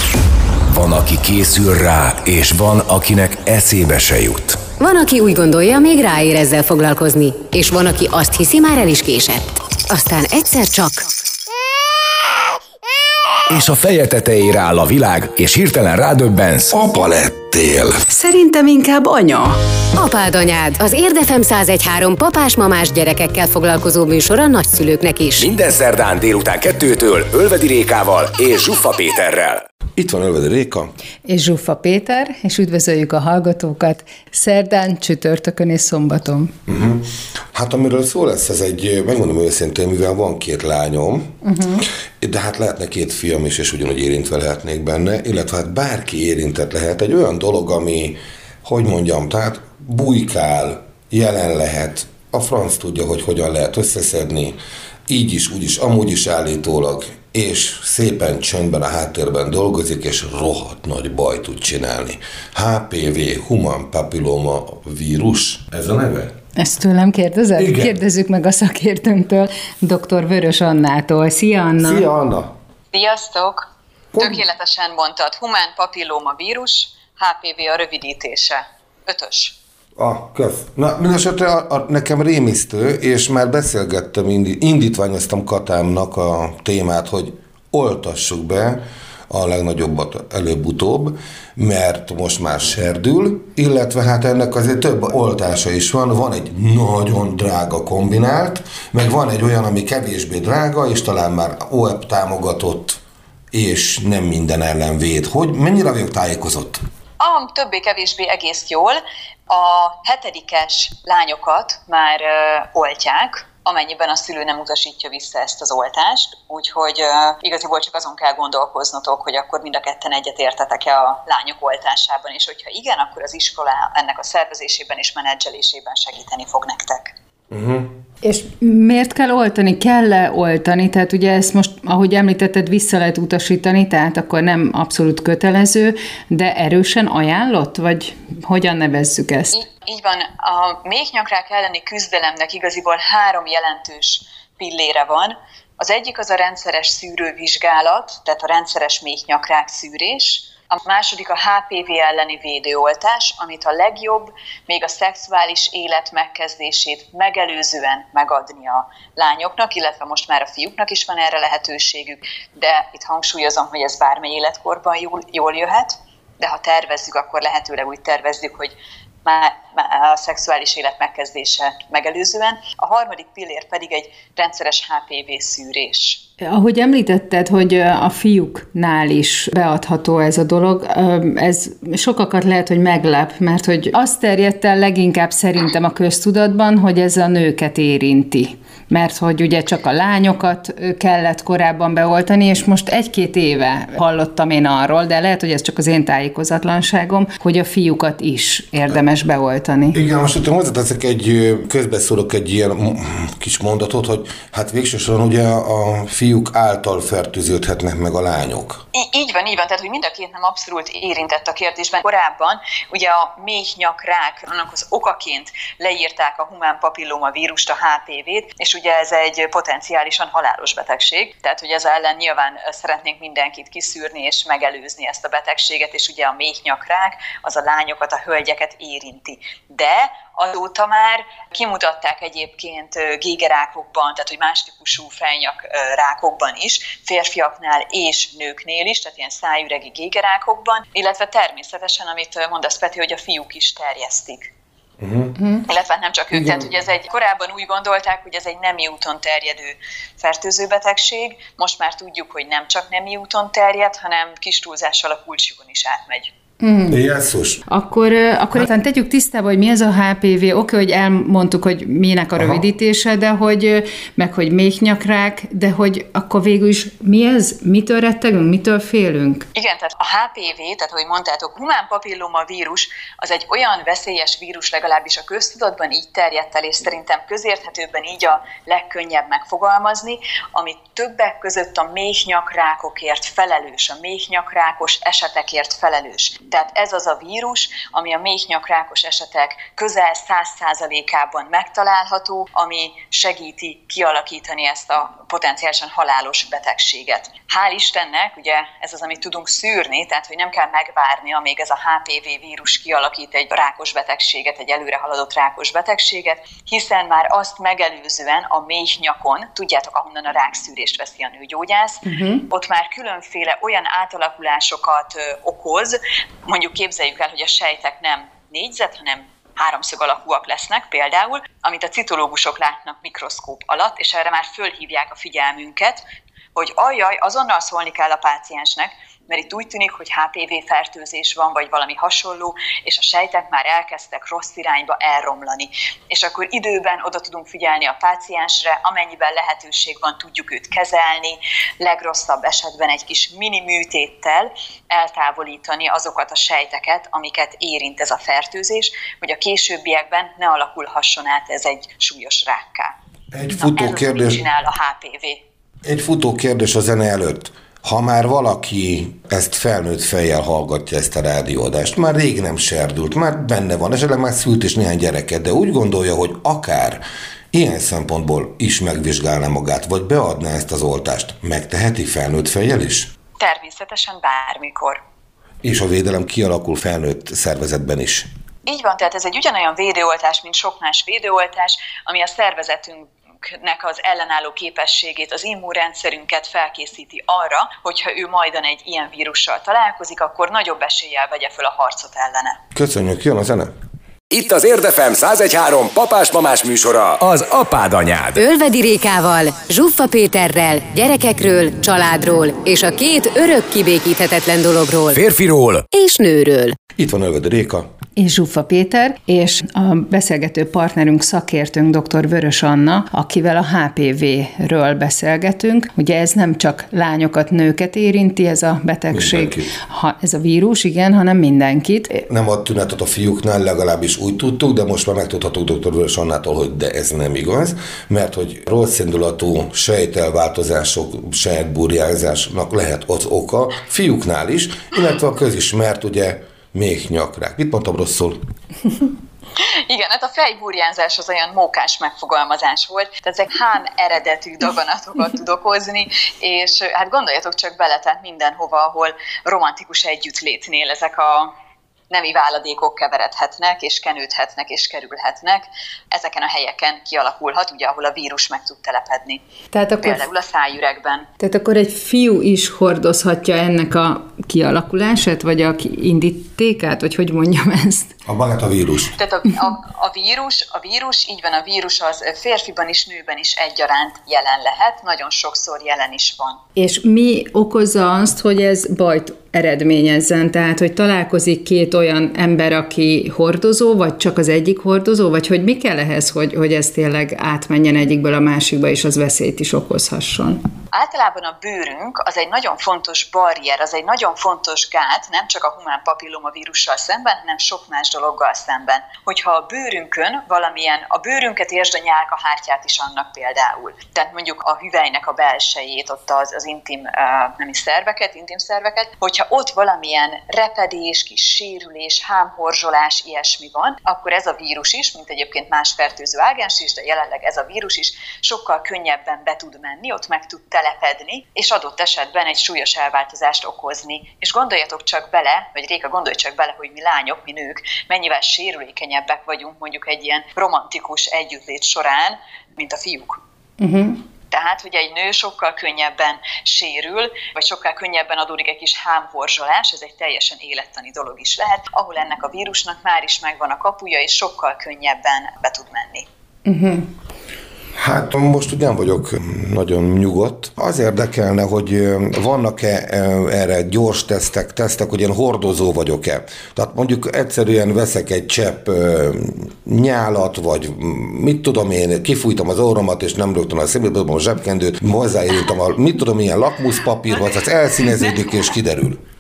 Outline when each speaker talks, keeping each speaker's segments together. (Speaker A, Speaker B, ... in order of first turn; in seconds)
Speaker A: 0.7-4.7, 13.5-16.9, 25.4-29.6, 394.3-398.4, 405.1-405.9
Speaker B: 4.8-11.1, 19.9-25.5, 398.4-405.2, 405.9-406.8
Speaker C: 16.7-18.0, 30.0-30.9, 36.7-41.4, 42.2-54.6, 55.1-66.3, 67.6-67.9, 71.8-72.5, 74.1-74.4, 80.0-103.0, 103.5-106.8, 127.5-127.9, 199.9-208.8, 245.0-245.4, 246.3-246.7, 256.9-257.6, 262.4-262.6, 353.3-354.4, 355.8-367.0, 367.5-373.1, 375.6-378.3, 392.8-393.7, 407.0-407.9, 419.1-419.7, 422.3-438.4, 468.3-469.2, 548.0-569.2
Speaker D: 18.1-19.6, 31.3-36.5, 41.4-41.8, 66.6-72.0, 128.2-139.6, 176.4-200.0, 256.6-257.0, 257.7-269.5, 312.1-312.5, 408.2-422.2, 459.7-460.2, 461.4-468.1, 476.8-490.6, 533.8-534.2, 546.7-547.1
Speaker E: 72.9-79.6, 107.2-127.1, 139.5-168.7, 169.2-176.2, 208.9-244.5, 245.7-256.3, 269.6-326.0, 326.6-352.9, 353.5-355.4, 373.4-375.0, 378.7-392.6, 439.6-451.5, 452.1-459.4, 460.0-461.3, 469.2-476.6, 490.9-533.4, 534.5-546.3, 568.1-568.4